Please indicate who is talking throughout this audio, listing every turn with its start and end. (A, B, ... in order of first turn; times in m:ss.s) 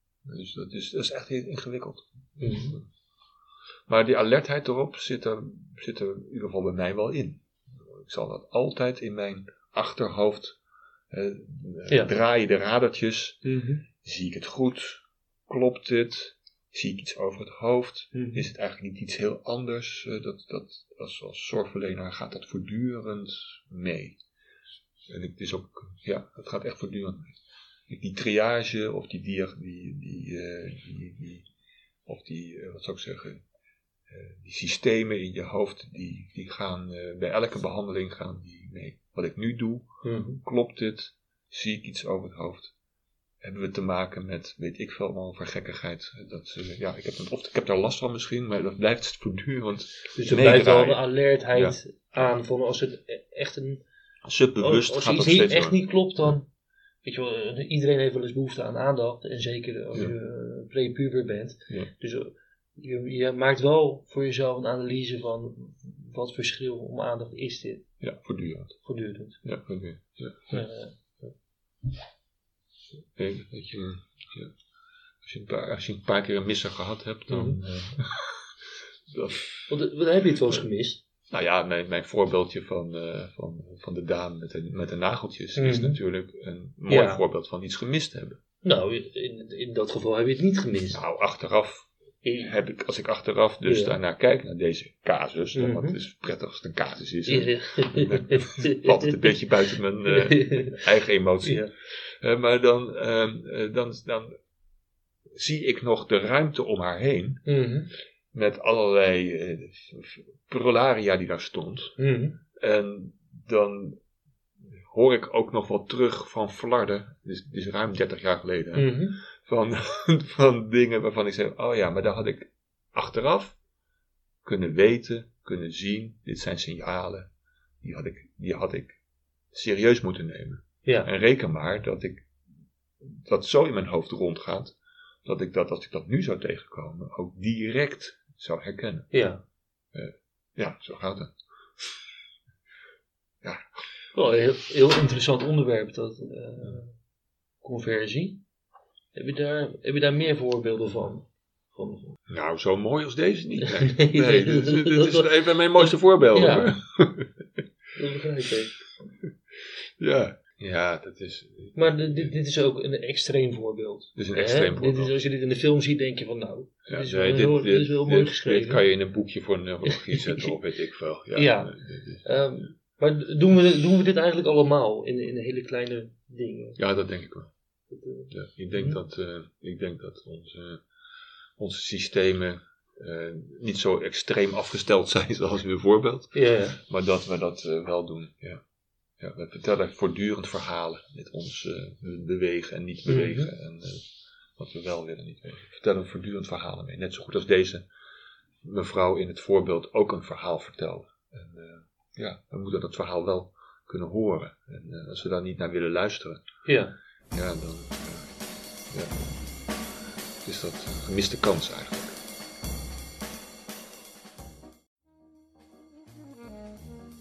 0:00.2-0:02.9 A
0:02.4-0:02.8 B
0:03.9-0:10.6 A
0:11.1-0:13.4 A
0:13.4-0:13.8 B
0:14.0-0:24.2 A
0:18.1-0:18.5 B
0:25.1-0:27.4 A
0:27.9-0:31.5 A
0:32.1-0:33.4 A
0:34.1-0:39.9 A
0:40.0-0:40.4 B
0:40.4-0:42.7 A
0:43.4-0:51.0 A
0:50.2-0:53.8 B
0:54.2-0:55.8 A
0:54.6-0:56.5 B
0:57.0-1:07.9 B
1:08.0-1:08.8 A
1:08.8-1:09.4 B
1:09.4-1:10.7 A
1:10.5-1:11.0 B
1:13.2-1:14.5 A
1:15.2-1:19.7 A
1:17.3-1:17.6 B
1:19.7-1:21.0 B
1:21.3-1:28.4 A
1:25.6-1:26.0 B
1:26.9-1:27.2 B
1:28.6-1:31.0 B
1:30.9-1:31.9 A
1:32.2-1:32.6 B
1:32.4-1:44.3 A
1:33.7-1:34.0 B
1:35.5-1:36.0 B
1:37.3-1:39.4 B
1:40.1-1:40.8 B
1:41.4-1:41.7 B
1:45.3-1:47.4 A
1:47.5-1:47.9 B
1:48.3-1:52.0 A
1:52.0-1:52.4 B
1:52.6-1:54.0 A
1:54.6-2:03.6 A
1:58.8-1:59.2 B
2:04.4-2:07.3 A
2:07.8-2:09.0 A
2:09.5-2:12.2 A
2:13.0-2:19.1 A
2:19.1-2:19.4 B
2:19.9-2:21.3 A
2:24.2-2:27.0 B
2:27.6-2:28.4 B
2:29.2-2:32.2 B
2:32.3-2:37.3 A
2:33.6-2:36.7 B
2:38.0-2:38.8 B
2:40.0-2:42.3 A
2:41.8-2:48.8 B
2:44.2-2:45.1 A
2:46.9-2:52.2 A
2:49.9-2:50.5 B
2:51.4-2:51.7 B
2:52.2-2:56.8 B
2:56.8-2:57.5 A
2:57.9-2:59.0 B
2:58.3-3:00.8 A
3:01.6-3:08.6 A
3:06.3-3:06.8 B
3:09.2-3:17.9 A
3:13.1-3:13.5 B
3:18.6-3:26.4 A
3:26.7-3:27.0 B
3:27.3-3:28.3 A
3:28.9-3:29.4 A
3:30.4-3:32.2 A